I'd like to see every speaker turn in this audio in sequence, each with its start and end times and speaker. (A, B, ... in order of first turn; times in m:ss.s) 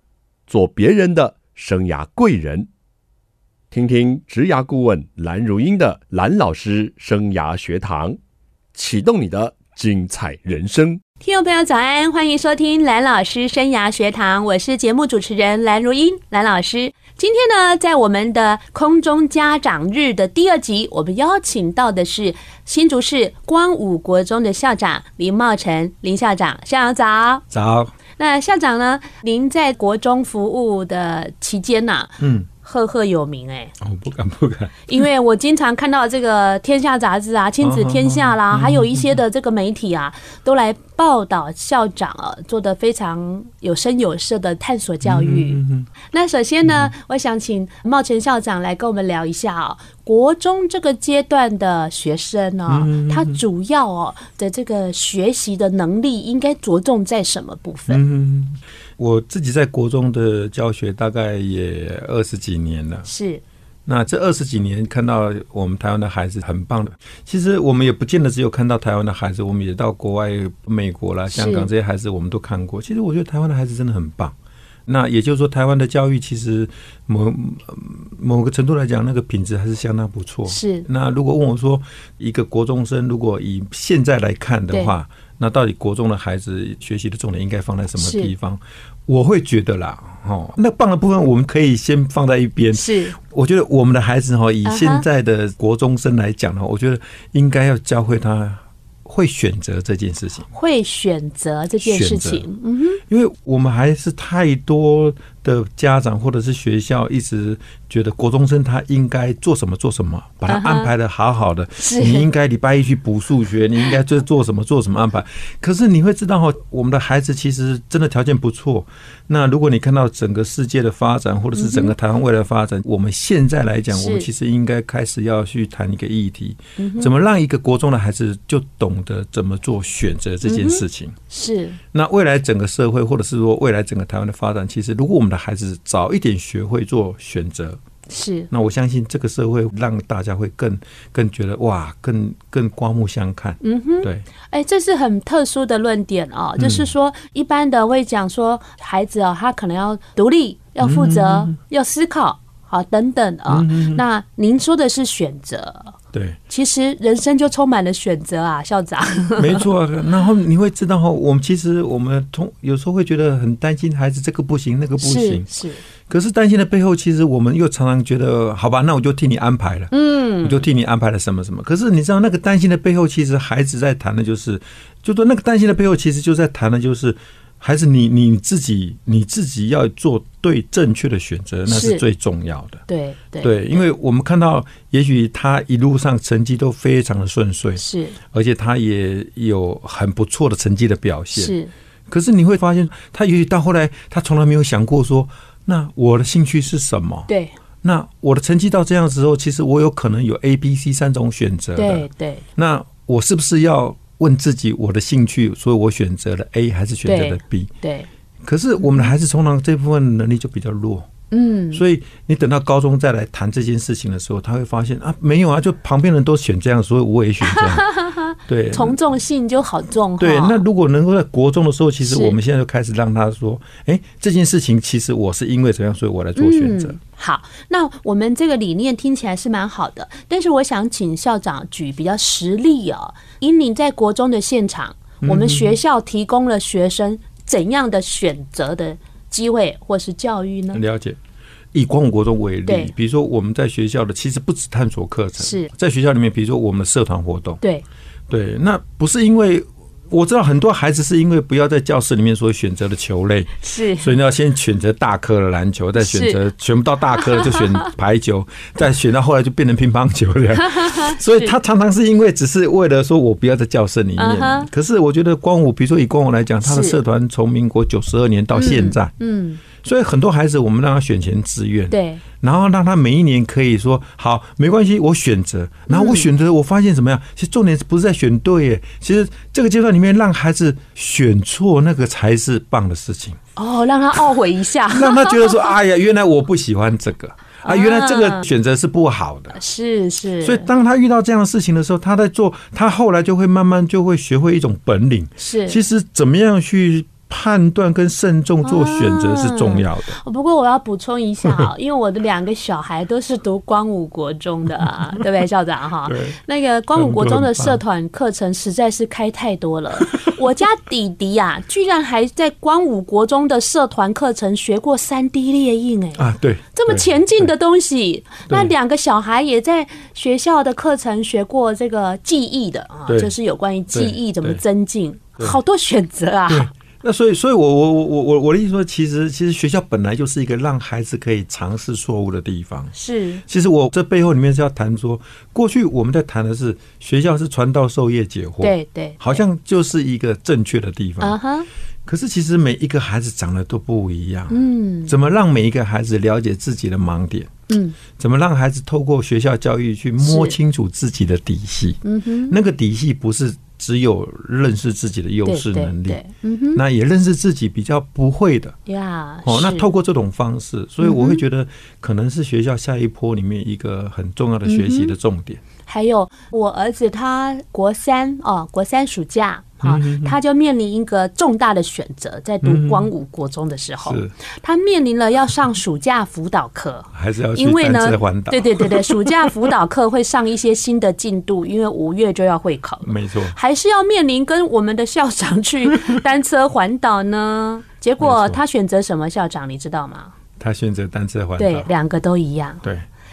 0:00.5-0:02.7 A
0:03.7-0:08.2 A
0:08.7-0:11.0 A
0:11.2-0:27.4 B
0:27.5-0:27.9 C
0:28.2-0:33.7 B
0:32.2-0:32.5 C
0:33.8-0:35.0 C
0:34.9-0:58.0 B
0:37.6-0:39.2 C
0:45.0-0:45.9 C
0:46.6-0:46.9 C
0:52.7-0:53.4 C
0:57.9-1:03.1 C
1:03.0-1:03.4 B
1:03.8-1:14.3 C
1:11.3-1:11.7 B
1:14.9-1:40.5 C
1:20.5-1:20.9 B
1:28.0-1:28.3 B
1:32.7-1:33.2 B
1:34.6-1:35.0 B
1:40.5-1:43.0 B
1:41.8-1:42.4 C
1:43.1-2:11.2 C
1:50.5-1:50.9 B
1:51.8-1:52.3 B
2:01.6-2:01.9 B
2:03.9-2:04.3 B
2:06.8-2:07.1 B
2:10.4-2:11.8 B
2:11.9-2:17.8 C
2:18.1-2:18.5 B
2:18.5-2:24.2 C
2:23.6-2:35.9 B
2:26.6-2:26.9 C
2:30.8-2:31.6 C
2:33.5-2:34.0 C
2:36.1-2:36.4 C
2:36.5-2:39.7 B
2:39.4-2:45.5 C
2:45.0-2:45.8 B
2:46.1-3:02.8 C
2:49.9-2:50.7 B
3:01.7-3:02.0 B
3:02.9-3:03.8 B
3:03.4-3:11.6 C
3:07.8-3:08.2 B
3:11.3-3:11.7 B
3:12.1-3:17.3 C
3:17.3-3:17.6 B
3:17.8-3:27.7 C
3:21.8-3:22.4 B
3:27.0-3:28.1 B
3:28.4-3:31.1 C
3:31.3-3:31.8 B
3:31.7-3:37.9 C
3:37.4-3:40.6 B
3:38.5-3:39.0 C
3:40.2-3:47.0 C
3:42.0-3:42.4 B
3:46.4-4:00.8 B
3:55.2-3:55.8 C
4:00.7-4:01.2 C
4:01.7-4:07.6 C
4:02.7-4:02.9 B
4:05.4-4:05.7 B
4:08.3-4:29.1 C
4:13.6-4:14.1 B
4:16.0-4:16.4 B
4:17.2-4:17.8 B
4:20.6-4:21.6 B
4:24.2-4:24.7 B
4:26.6-4:27.0 B
4:28.5-4:29.6 B
4:29.8-4:43.4 C
4:31.9-4:32.2 B
4:35.9-4:36.3 B
4:43.6-4:45.5 B
4:44.9-4:49.6 C
4:47.6-4:48.5 B
4:49.6-4:50.7 B
4:50.4-5:00.2 C
4:55.4-4:55.8 B
4:58.6-5:26.7 B
5:06.1-5:06.4 C
5:06.9-5:07.8 C
5:10.1-5:10.4 C
5:16.2-5:17.5 C
5:23.1-5:23.3 C
5:23.9-5:24.6 C
5:26.5-5:32.9 C
5:32.9-5:33.4 B
5:33.4-5:41.4 C
5:38.6-5:39.4 B
5:41.2-5:41.7 B
5:42.1-5:47.5 C
5:44.5-5:45.1 B
5:47.7-5:48.0 B
5:48.1-5:56.2 C
5:50.2-5:50.6 B
5:52.0-5:52.6 B
5:55.4-5:56.8 B
5:56.7-5:58.8 C
5:58.9-5:59.9 B
5:59.4-6:05.6 C
6:01.0-6:01.4 B
6:04.6-6:05.1 B
6:05.8-6:30.3 B
6:09.8-6:10.4 C
6:12.6-6:13.1 C
6:14.0-6:14.3 C
6:17.1-6:19.5 C
6:23.0-6:23.6 C
6:28.2-6:28.6 C
6:30.6-6:31.9 C
6:31.6-6:32.8 B